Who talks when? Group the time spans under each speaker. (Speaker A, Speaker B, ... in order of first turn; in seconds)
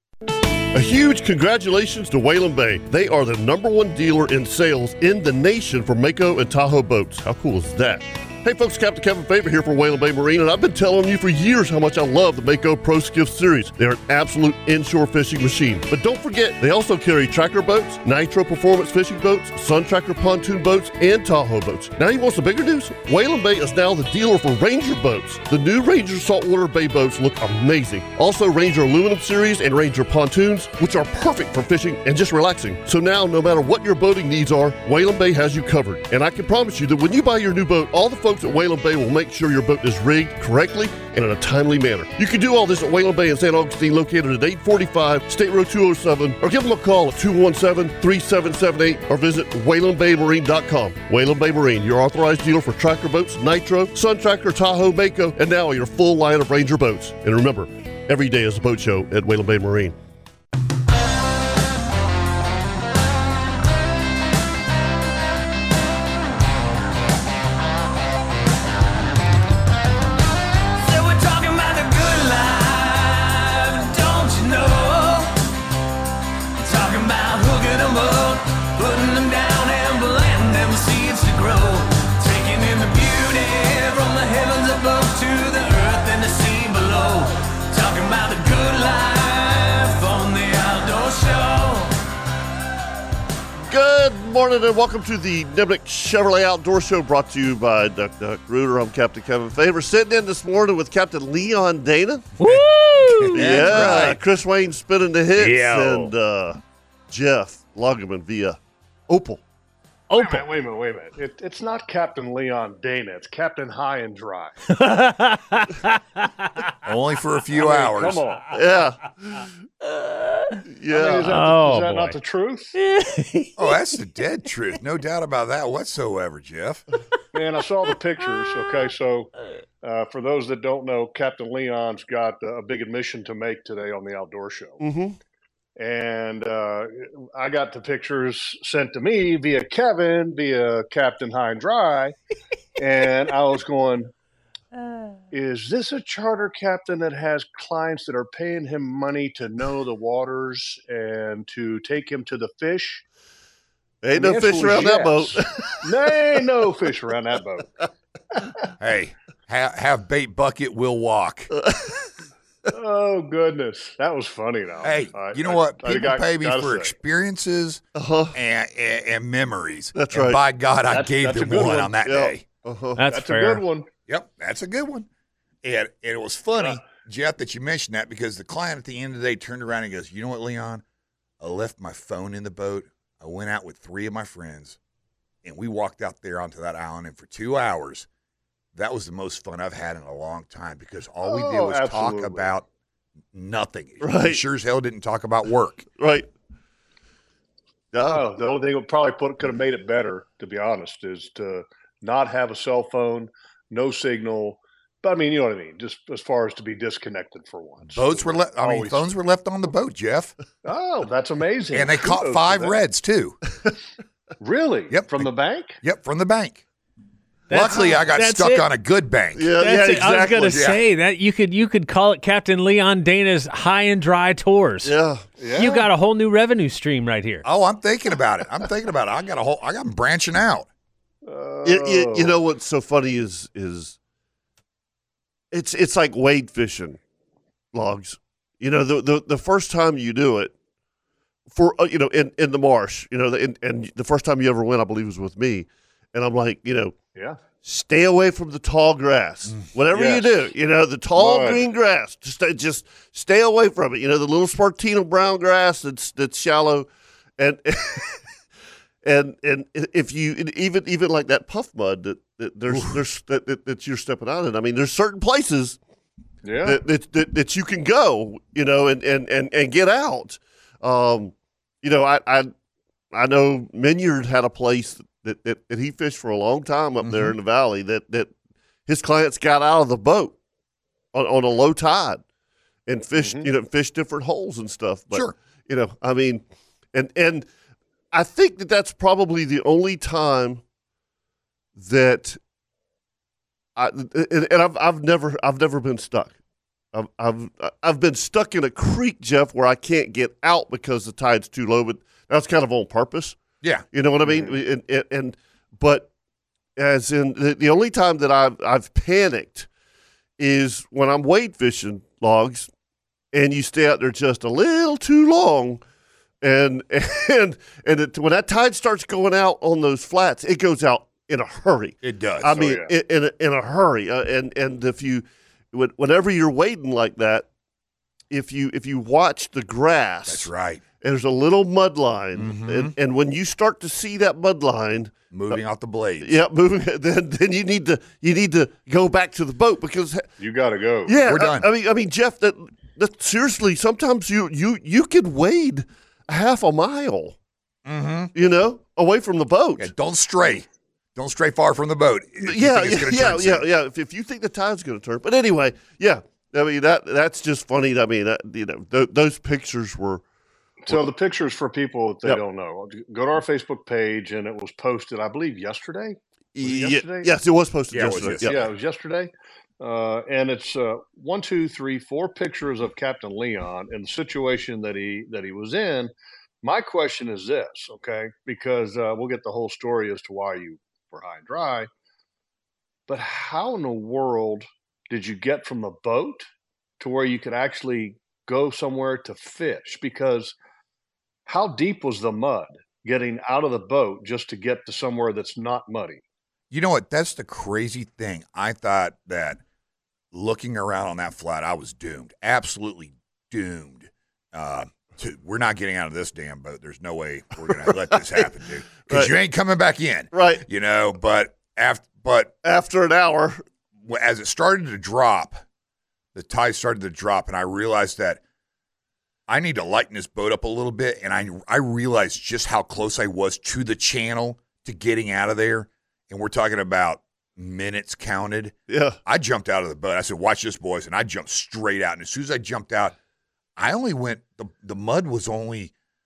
Speaker A: 0.7-60.0, 93.7-102.3, 103.3-108.6, 109.1-109.4, 118.5-119.5, 120.7-121.4, 134.8-135.2, 154.0-156.1, 161.6-162.1, 167.9-168.4, 169.9-170.4, 172.1-173.0, 194.0-194.4, 196.0-196.3, 197.9-198.2, 219.4-220.6, 224.8-225.2, 231.6-234.0, 235.5-237.0, 237.7-240.5, 241.5-246.9, 247.6-256.9, 257.4-258.2, 259.0-265.8, 266.6-272.5, 273.1-278.3, 278.9-280.4, 281.1-282.2, 282.9-286.4, 286.9-287.4, 288.1-290.6, 291.8-292.4, 293.8-296.3, 296.9-303.4, 303.9-306.1, 306.8-309.7, 310.4-312.7, 313.3-315.8, 316.4-327.5, 328.3-330.5, 331.0-335.6, 336.2-340.3, 341.1-347.4, 348.4-349.9, 352.4-360.2, 366.6-368.6, 407.7-408.5, 409.0-409.4, 410.3-410.7, 412.6-413.6, 428.9-429.2
Speaker B: 70.8-75.3, 76.6-91.9
Speaker C: 102.4-104.1, 110.1-110.5, 114.7-116.7, 119.9-120.6, 121.2-122.2, 122.8-123.8, 173.0-173.6, 217.5-218.7, 219.6-224.9, 225.6-227.4
Speaker D: 102.4-104.2, 105.4-106.1, 116.8-118.2, 123.6-126.8, 158.8-161.5, 164.8-172.4, 174.1-175.1, 175.6-180.8, 181.4-184.8, 185.4-188.1, 188.8-192.7, 193.3-195.9, 207.9-210.3, 211.7-213.4, 214.9-215.3, 215.8-216.6, 217.5-219.5, 220.3-220.8, 227.4-230.7, 277.0-277.4, 322.0-322.6, 330.3-330.8, 332.4-332.9, 335.3-336.4, 341.3-341.7, 347.9-348.3, 349.8-353.6, 367.9-368.7, 396.7-399.6, 400.3-412.5, 414.0-415.6, 416.3-418.4, 419.5-433.1, 433.8-435.9
Speaker E: 110.1-114.5, 117.5-118.5, 120.9-122.7, 127.3-129.3, 129.8-134.8, 135.8-142.2, 142.8-144.1, 145.3-153.0, 154.2-157.7, 162.7-166.9, 170.9-172.0, 173.1-173.9, 191.2-192.5, 198.0-209.1, 210.7-212.8, 214.4-215.8, 225.4-225.9, 231.3-232.4, 249.9-250.3, 251.2-251.6, 266.4-266.8, 283.1-283.5, 304.2-304.6, 322.6-322.9, 340.4-341.1, 360.8-367.3, 368.4-381.9, 383.1-386.5, 387.0-390.6, 391.5-396.2